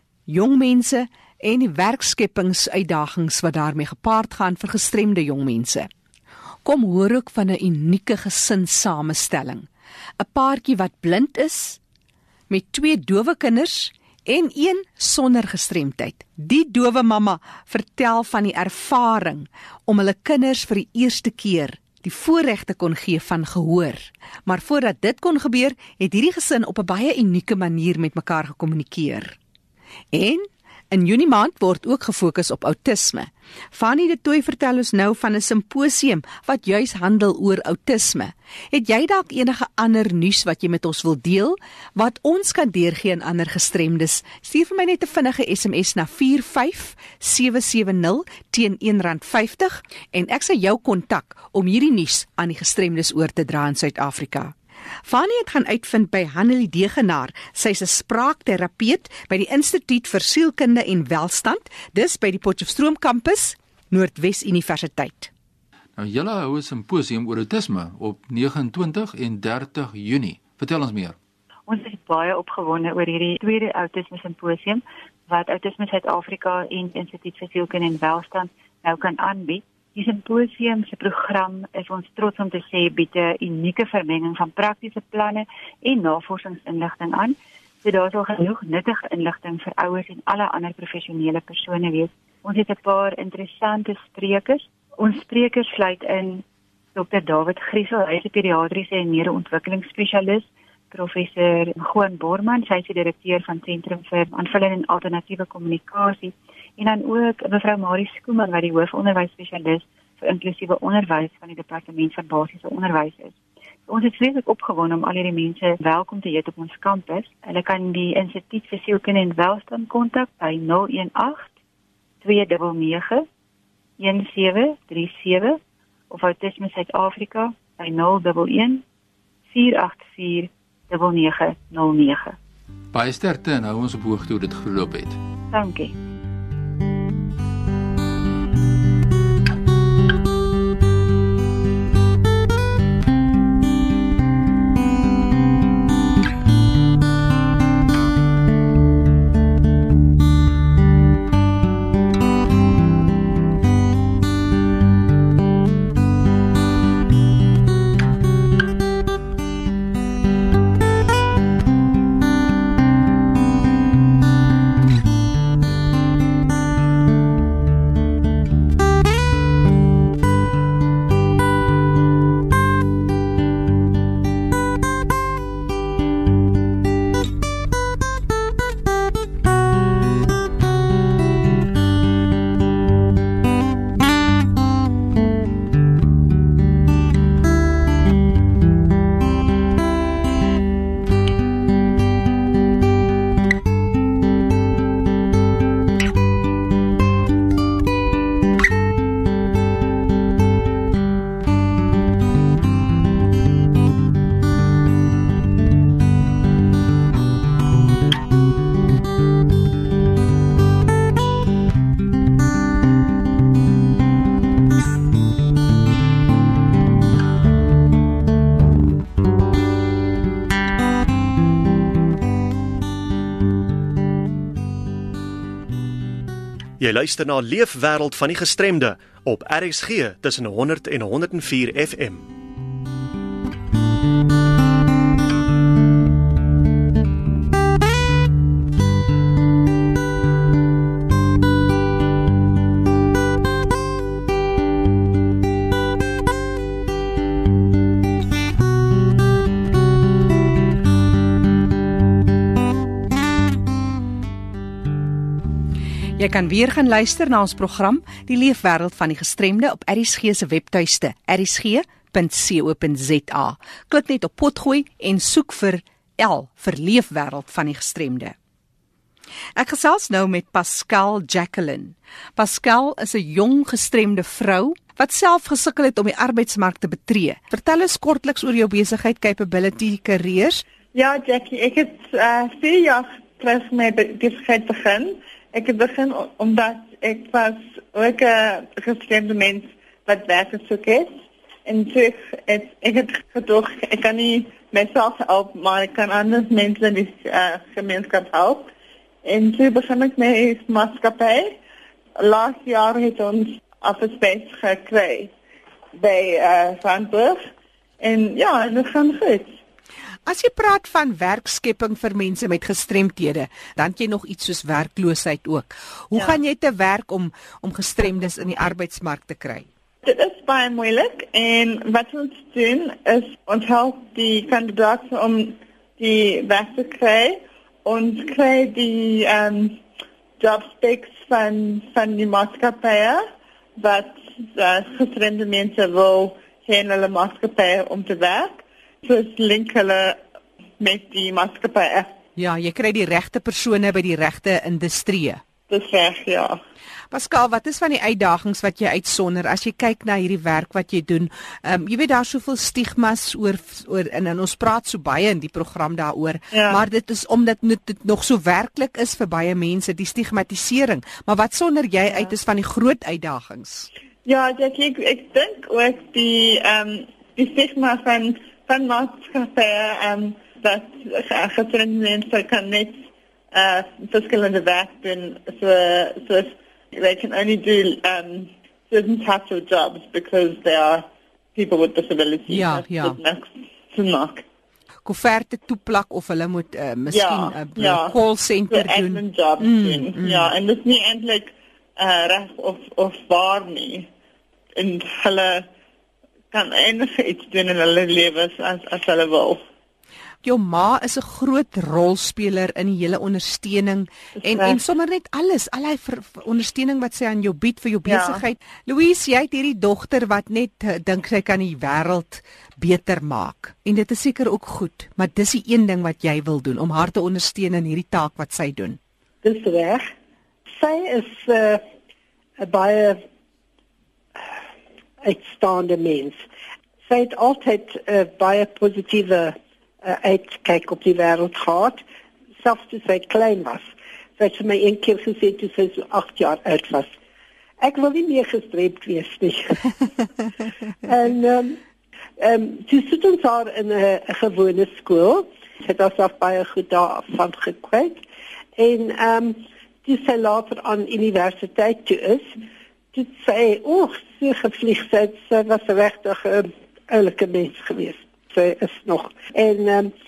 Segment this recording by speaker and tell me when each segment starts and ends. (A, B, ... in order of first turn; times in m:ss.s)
0:00.3-0:05.9 A
0:06.6-0:09.7 A
0:10.2-0:11.8 A
0:12.5-0:29.4 A
0:30.1-0:54.5 A
0:55.0-1:05.3 A
1:06.0-1:11.2 B
1:11.7-1:36.4 C
1:37.0-2:01.5 C
2:02.2-2:03.3 C
2:04.0-2:05.6 C
2:06.1-2:08.8 C
2:09.5-2:12.4 C
2:12.9-2:15.2 B
2:15.5-2:15.9 C
3:46.8-3:52.2 D
4:16.2-4:28.4 A
4:29.6-4:40.6 A
4:41.0-4:51.2 E
4:51.7-4:58.7 E
4:59.2-5:01.6 E
5:02.2-5:05.3 E
5:06.0-5:07.5 E
5:08.0-5:09.6 E
5:10.3-5:19.7 A
5:16.1-5:16.4 E
5:20.0-5:29.8 E
5:30.4-5:33.2 E
5:33.8-5:40.2 E
5:40.8-5:42.1 E
5:42.4-5:45.4 A
5:45.7-5:46.6 E
5:47.1-6:03.9 A
5:56.5-5:56.8 E
6:04.2-6:24.4 E
6:22.5-6:23.2 A
6:25.0-6:30.5 A
6:27.1-6:28.1 E
6:28.7-6:34.1 E
6:34.8-6:35.7 E
6:36.5-6:39.6 E
6:40.4-6:59.0 A
6:44.4-6:44.8 E
6:48.0-6:48.4 E
6:59.4-7:00.1 F
7:00.8-7:01.8 F
7:02.6-7:03.2 F
7:05.2-7:06.4 F
7:07.1-7:12.0 F
7:12.6-7:17.1 F
7:17.8-7:19.9 F
7:21.0-7:21.8 F
7:22.4-7:28.2 F
7:28.8-7:32.6 F
7:33.1-7:40.1 F